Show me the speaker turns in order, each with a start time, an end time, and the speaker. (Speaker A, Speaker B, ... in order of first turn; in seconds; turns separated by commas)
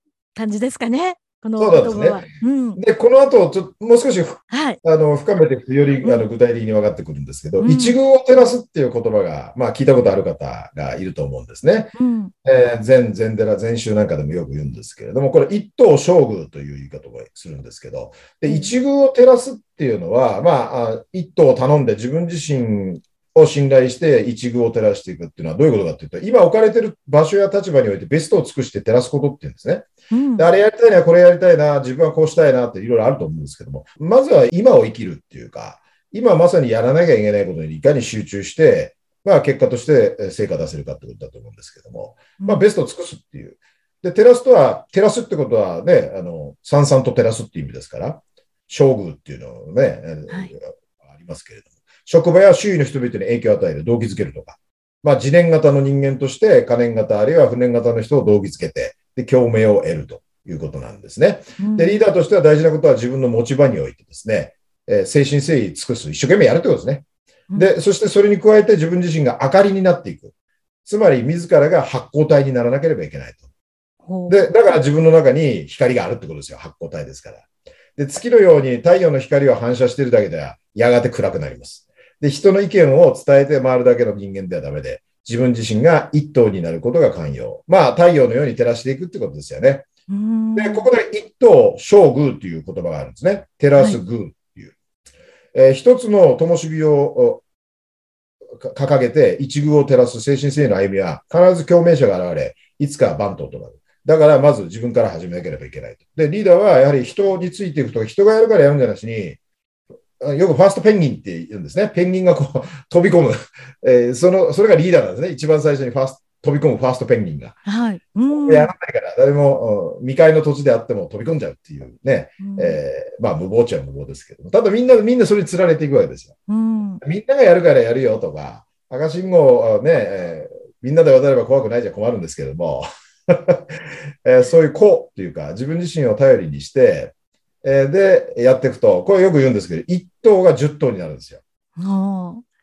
Speaker A: 0.3-2.8, Speaker B: 1.6-2.2, Speaker B: 2.8-11.9, Speaker A: 4.5-4.8, Speaker A: 7.6-8.0, Speaker A: 11.9-12.3, Speaker B: 12.4-67.0, Speaker A: 18.4-18.7, Speaker A: 30.1-30.5, Speaker A: 42.4-42.6, Speaker A: 61.6-62.0, Speaker B: 67.5-70.3, Speaker B: 70.8-73.5, Speaker A: 74.1-74.5, Speaker B: 74.3-77.4, Speaker B: 78.0-89.9, Speaker A: 90.1-90.9, Speaker B: 90.5-94.7, Speaker B: 95.5-97.4, Speaker B: 98.6-109.4, Speaker B: 110.2-117.5, Speaker A: 117.6-118.7, Speaker B: 118.3-126.3, Speaker A: 122.4-122.8, Speaker A: 126.5-127.0, Speaker B: 127.0-141.4, Speaker A: 141.8-142.4